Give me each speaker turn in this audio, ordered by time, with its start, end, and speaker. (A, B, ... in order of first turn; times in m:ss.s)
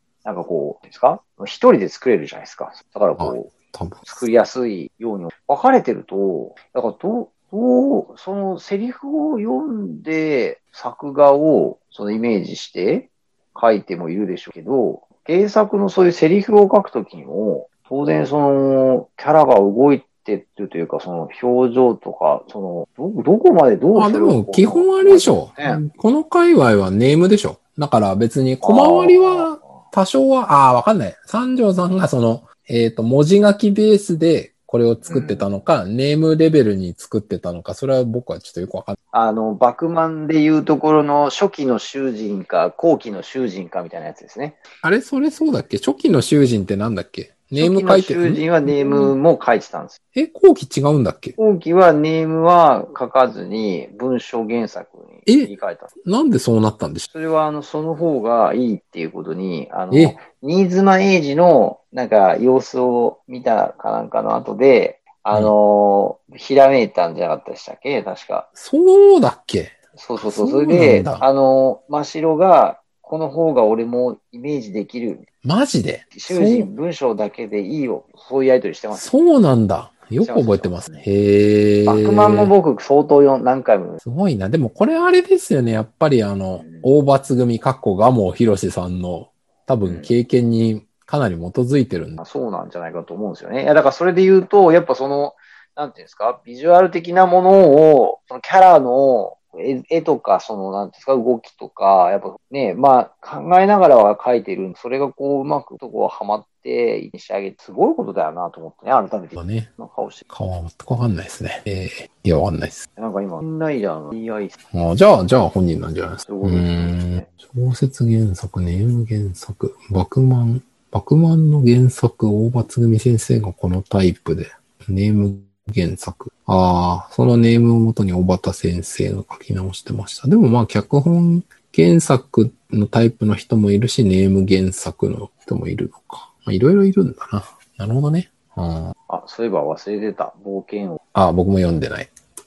0:00.2-0:03.5 A
0:03.2-0:04.1 B
0:04.0-0:25.8 A
0:23.9-0:39.0 B
0:28.6-0:29.6 A
0:35.0-0:35.5 A
0:39.1-0:44.6 A
0:44.8-0:49.1 B
0:47.5-0:50.0 A
0:50.1-0:51.4 B
0:51.4-0:55.9 A
0:55.3-0:55.5 B
0:56.0-0:57.1 B
0:57.1-1:08.5 A
0:59.9-1:00.2 B
1:08.6-1:11.2 B
1:09.9-1:15.2 A
1:15.4-1:16.7 B
1:16.1-1:19.0 A
1:18.9-1:22.5 B
1:20.2-1:21.0 A
1:21.8-1:24.0 A
1:24.0-1:32.2 B
1:26.6-1:26.9 A
1:29.8-1:30.1 A
1:32.2-1:50.2 A
1:49.4-1:49.7 B
1:50.3-1:52.8 B
1:53.0-1:54.6 A
1:54.7-2:18.9 B
1:56.2-1:57.3 A
2:19.1-2:21.0 A
2:21.1-2:22.1 B